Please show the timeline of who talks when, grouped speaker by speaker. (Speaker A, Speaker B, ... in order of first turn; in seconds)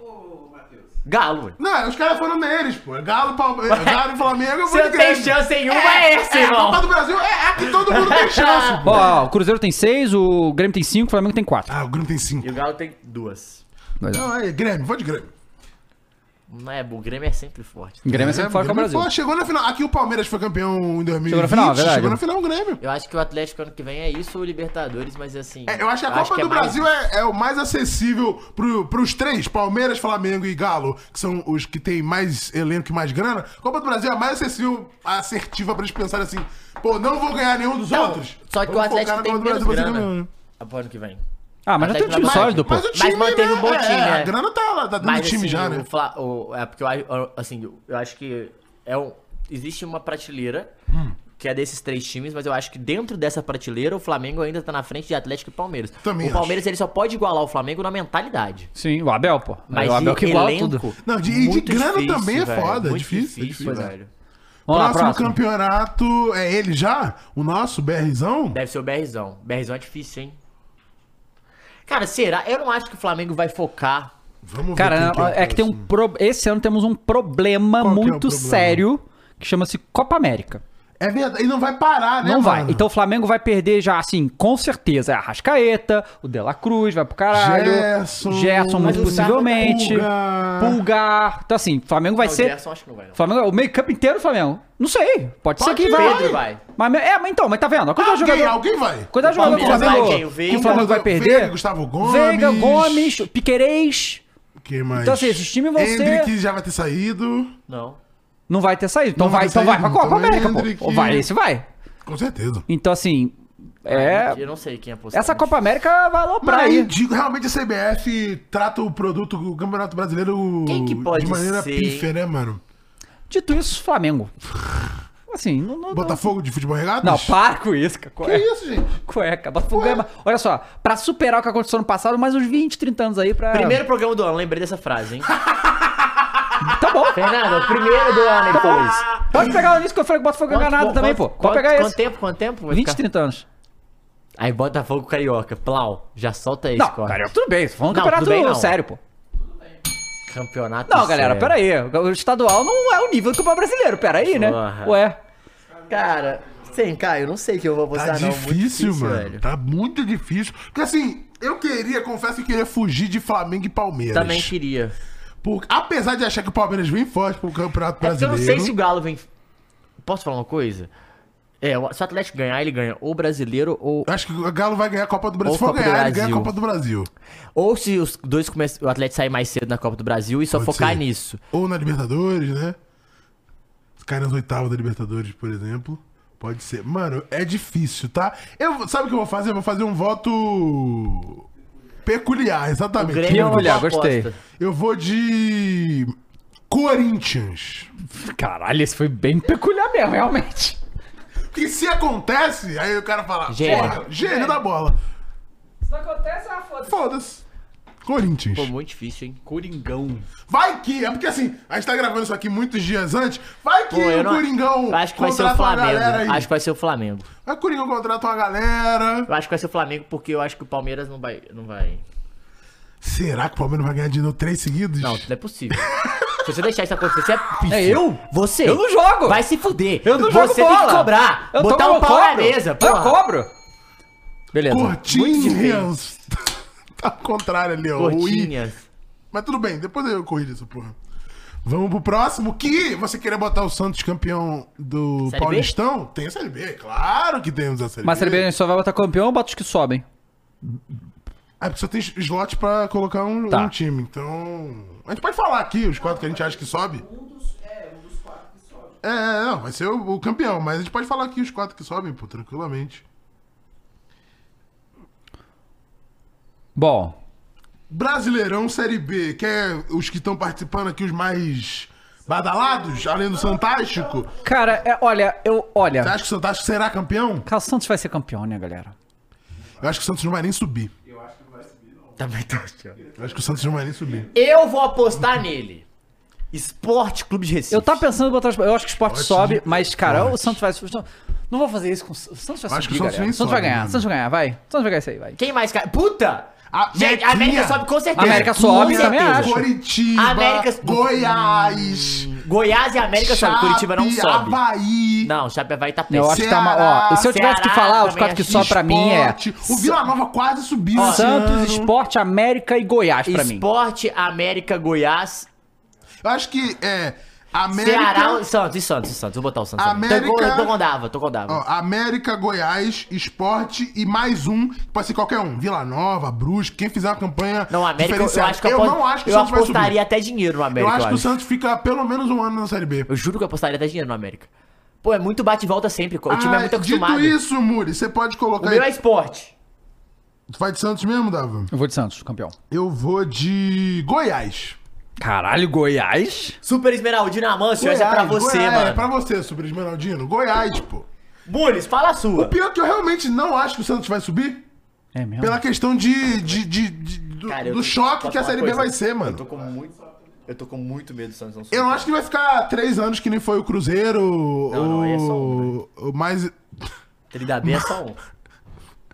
Speaker A: 1.0-1.6, 3.7-4.0, 4.6-6.8, 7.7-9.1, 12.4-13.6, 16.5-18.1, 22.8-26.8, 37.9-41.2, 41.8-44.3, 45.0-50.7, 51.4-58.7, 59.7-64.1, 68.5-70.4, 71.8-74.1, 88.8-89.9, 92.2-93.2, 95.6-96.6, 99.2-100.9, 107.7-108.0, 113.9-115.5, 120.7-122.1, 133.5-135.3, 137.1-139.5, 140.5-143.0, 144.4-147.3, 147.9-148.8, 150.3-151.6, 154.2-155.0, 155.9-159.4, 164.1-164.9, 168.0-169.3, 170.0-170.9, 171.6-174.1, 175.4-176.5, 177.6-181.4, 193.0-194.4, 203.5-204.0, 208.5-209.4, 213.9-217.3, 219.3-222.0, 225.0-225.9, 226.4-233.2, 235.0-235.9, 238.0-238.9, 245.3-245.7, 282.1-283.0, 284.3-285.9, 286.5-288.0, 295.4-304.6, 305.2-306.5, 307.2-308.7, 309.7-310.0, 310.9-311.3, 313.2-315.5, 317.7-321.6, 327.7-331.3, 333.1-334.5, 335.0-337.4, 338.6-339.5, 346.6-349.1, 351.5-352.6, 357.5-362.1, 364.7-365.7, 367.3-368.2
Speaker B: 1.6-9.1, 11.7-12.6, 14.1-15.3, 18.1-22.8, 25.7-40.3, 42.1-45.9, 50.9-51.1, 56.0-56.6, 61.0-63.9, 64.7-68.6, 74.4-75.9, 77.8-78.8, 81.0-82.8, 87.3-90.8, 95.8-96.4, 98.0-103.3, 104.6-107.5, 109.2-111.3, 112.0-112.7, 116.4-122.6, 125.9-127.3, 128.2-129.0, 129.7-130.0, 135.3-136.4, 139.3-139.6, 157.9-164.5, 165.4-168.8, 174.1-177.1, 180.5-182.8, 184.0-191.4, 192.0-193.8, 194.6-196.1, 196.7-197.9, 201.5-205.0, 206.9-207.4, 208.0-208.7, 210.5-216.5, 217.4-219.3, 223.0-226.5, 227.6-228.0, 234.7-238.5, 239.3-241.0, 241.6-248.5, 251.6-257.1, 259.0-263.0, 267.9-274.3, 276.0-277.5, 279.8-280.9, 283.1-284.3, 289.1-290.6, 292.7-294.1, 296.7-302.3, 303.1-305.3, 306.3-307.3, 308.5-311.9, 316.2-318.4, 319.8-320.8, 321.5-330.0, 330.8-333.1, 336.3-338.9, 340.5-341.7, 342.7-344.8, 347.8-351.1, 352.3-354.6, 355.4-359.4, 361.7-366.6, 367.6-367.9
Speaker C: 8.8-11.7, 18.0-19.1, 21.3-22.2, 41.6-42.9, 58.8-60.8, 64.7-65.3, 74.8-80.6, 82.2-92.5, 93.2-98.6, 99.1-104.2, 105.0-106.3, 108.5-111.7, 112.7-114.4, 115.1-116.9, 123.3-124.3, 125.3-126.3, 127.0-128.5, 129.0-133.8, 136.6-137.3, 138.5-142.0, 142.7-143.4, 146.8-149.0, 150.9-155.2, 193.3-194.3, 198.0-200.8, 203.6-204.6, 205.8-207.0, 209.5-210.3, 227.7-229.4, 230.0-233.5, 234.5-235.0, 248.0-250.0, 257.2-258.1, 266.8-267.1, 274.4-276.2, 277.5-278.9, 287.7-295.4, 298.1-299.6, 306.1-309.4, 311.0-313.6, 341.7-342.5, 345.2-346.6, 355.1-355.6